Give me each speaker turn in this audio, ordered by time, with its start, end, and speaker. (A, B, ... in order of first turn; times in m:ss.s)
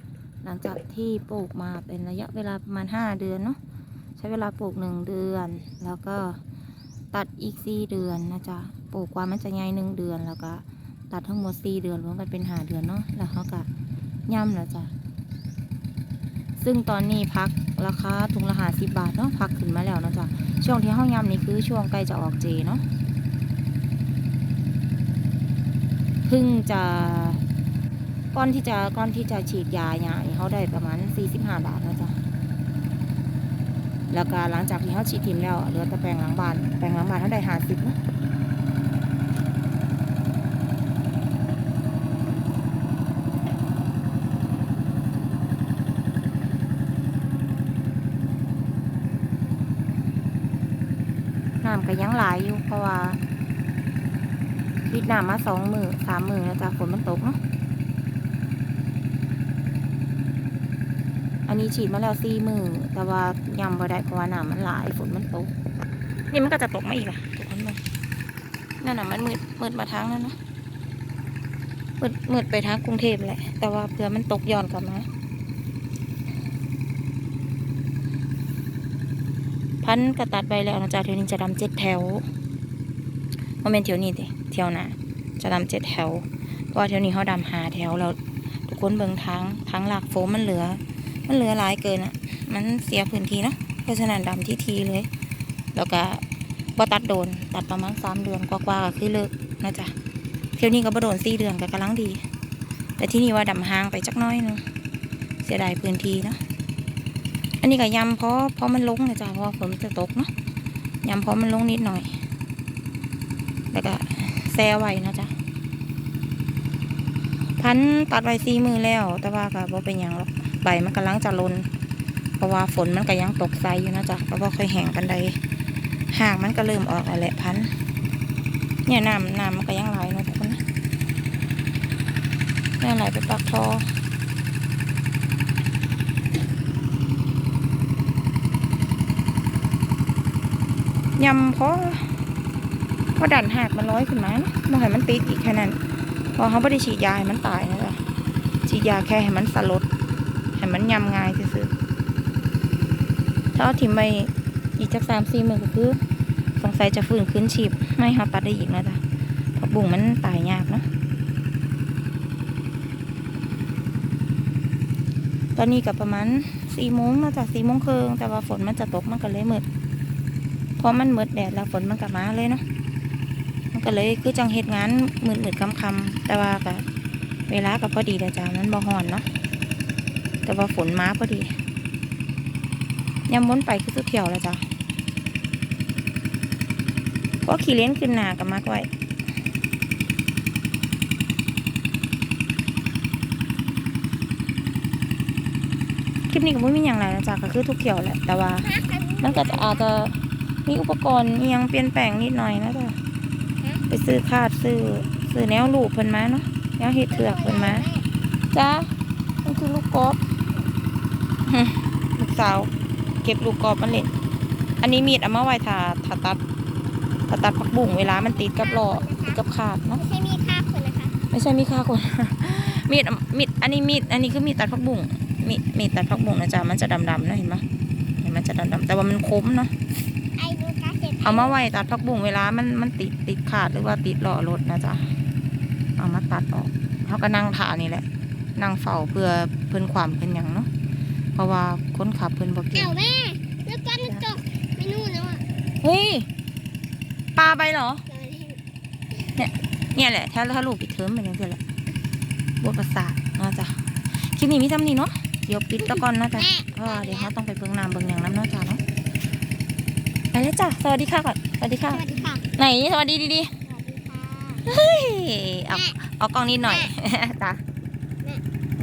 0:00.4-0:03.6 A
0:04.2-0:06.4 A
0:07.1-0:13.7 A
0:14.3-0:14.9 A
0:16.6-0:22.8 A
0:26.2-0:27.4 A
0:28.3-0:32.2 A
0:34.1-0:38.0 A
0:51.6-0:53.2 A
0:54.8-0:57.4 A
1:01.5-1:05.5 A
1:06.3-1:07.8 A
1:08.8-1:10.4 A
1:12.0-1:15.0 A
1:19.8-1:22.3 A
1:23.6-1:35.1 A
1:35.7-1:36.2 A
1:36.8-1:39.9 A
1:40.6-1:42.2 A
1:43.0-1:44.6 A
1:45.4-1:46.4 A
1:47.6-1:50.3 A
1:51.0-1:52.2 A
1:53.7-1:55.3 A
1:57.6-2:01.7 A
2:02.4-2:05.4 A
2:06.1-2:07.7 A
2:08.8-2:10.6 A
2:12.8-2:13.9 A
2:21.2-2:22.2 A
2:23.2-2:25.8 A
2:26.3-2:28.0 A
2:28.6-2:29.8 A
2:30.5-2:31.7 A
2:33.5-2:36.0 A
2:36.6-2:39.0 A
2:39.5-2:40.8 A
2:45.6-2:49.6 A
2:50.8-2:52.6 A
2:53.7-2:56.8 A
2:57.5-2:59.3 A
3:00.4-3:01.6 A
3:03.3-3:04.6 A
3:07.4-3:08.9 A
3:16.3-3:23.0 A
3:18.6-3:19.8 B
3:23.6-3:23.8 B
3:23.9-3:27.8 A
3:27.1-3:28.0 B
3:28.5-3:28.9 A
3:29.4-3:30.2 A
3:31.4-3:32.7 A
3:33.2-3:34.1 A
3:34.8-3:36.4 A
3:37.3-3:40.0 A
3:37.9-3:39.4 B
3:40.0-3:41.2 B
3:41.3-3:47.6 A
3:48.2-3:49.7 A
3:50.4-3:51.6 B
3:51.2-3:55.0 A
3:56.0-3:58.0 A
3:58.6-4:00.7 A
4:01.3-4:03.0 A
4:02.7-4:05.4 B
4:05.8-4:06.3 A
4:07.4-4:08.0 A
4:08.1-4:08.6 B
4:09.4-4:11.6 A
4:12.6-4:18.8 A
4:15.9-4:17.3 B
4:20.3-4:23.5 A
4:21.9-4:22.4 B
4:23.7-4:24.6 B
4:24.6-4:27.6 A
4:25.7-4:26.0 B
4:26.6-4:26.9 B